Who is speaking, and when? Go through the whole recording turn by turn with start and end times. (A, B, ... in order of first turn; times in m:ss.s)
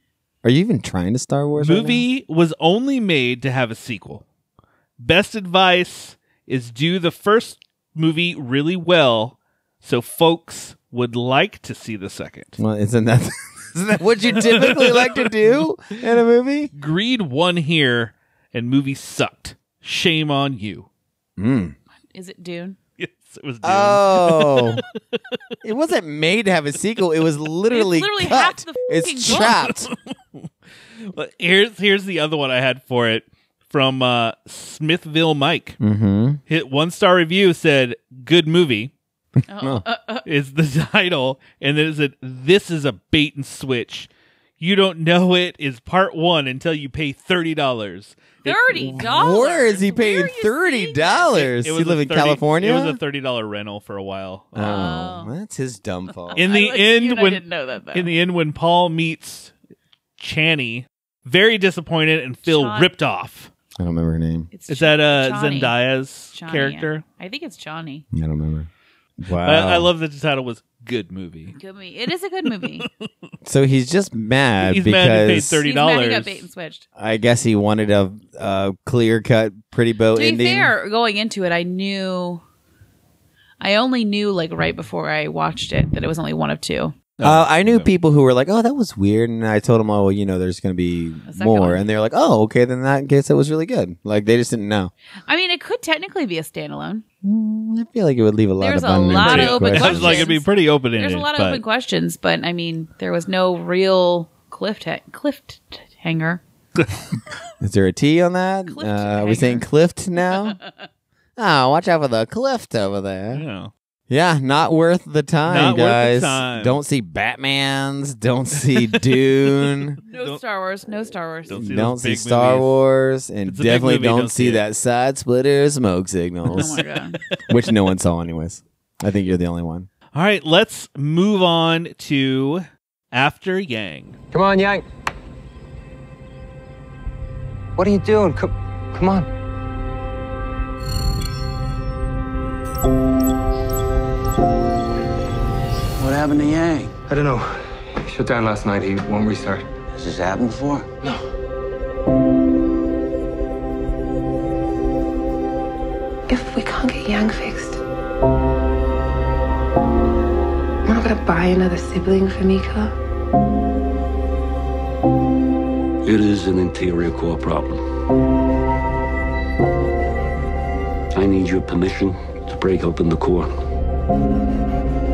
0:00.4-0:02.0 A
0:01.6-0:04.2 B
0:05.0-0:12.6 B
0:12.6-0:16.7 A
0:14.3-0:15.6 B
0:16.7-0:20.9 B
0:21.4-0:21.8 A
0:22.1-0:22.8 C
0:23.0-0:25.2 B
0:23.6-0:24.8 A
0:25.6-0:29.9 A
0:27.7-0:29.6 C
0:29.3-0:30.5 B
0:31.0-0:35.8 B
0:35.8-0:36.4 A
0:36.5-0:38.9 B
0:39.5-0:40.2 C
0:39.6-0:39.8 A
0:40.2-0:48.9 B
0:48.4-0:51.4 C
0:48.8-0:53.0 A
0:51.3-0:54.8 B
0:54.5-0:56.4 A
0:54.6-0:55.3 C
0:56.2-0:58.1 C
0:56.4-0:57.4 B
0:57.9-0:59.5 B
1:00.2-1:03.5 B
1:02.4-1:02.9 C
1:03.8-1:04.5 A
1:04.5-1:05.7 C
1:04.7-1:07.0 B
1:06.3-1:08.0 C
1:08.1-1:08.7 A
1:09.2-1:09.9 A
1:09.4-1:11.6 B
1:11.5-1:12.9 C
1:12.6-1:13.1 B
1:13.4-1:15.6 A
1:14.6-1:16.4 B
1:15.6-1:16.8 C
1:17.0-1:20.7 A
1:20.1-1:22.4 C
1:23.6-1:26.9 C
1:27.2-1:27.9 B
1:27.2-1:34.9 A
1:31.3-1:31.8 C
1:35.3-1:37.0 C
1:37.2-1:40.3 A
1:38.6-1:46.4 C
1:39.1-1:41.6 B
1:47.6-1:50.6 A
1:48.7-1:49.6 C
1:50.3-1:50.7 C
1:51.4-1:53.4 A
1:53.3-1:53.7 B
1:54.1-2:00.0 A
1:55.4-1:56.8 B
2:00.0-2:00.4 B
2:00.1-2:01.6 C
2:01.5-2:02.8 B
2:01.5-2:06.8 A
2:03.4-2:04.6 B
2:06.5-2:07.2 C
2:06.5-2:07.7 B
2:07.5-2:09.9 A
2:10.1-2:14.2 B
2:14.3-2:14.8 D
2:17.8-2:19.3 D
2:26.0-2:26.9 E
2:27.1-2:27.5 D
2:28.0-2:29.6 D
2:29.9-2:30.9 E
2:36.3-2:37.8 F
2:40.8-2:42.9 F
2:46.0-2:47.8 G
2:51.1-2:53.5 G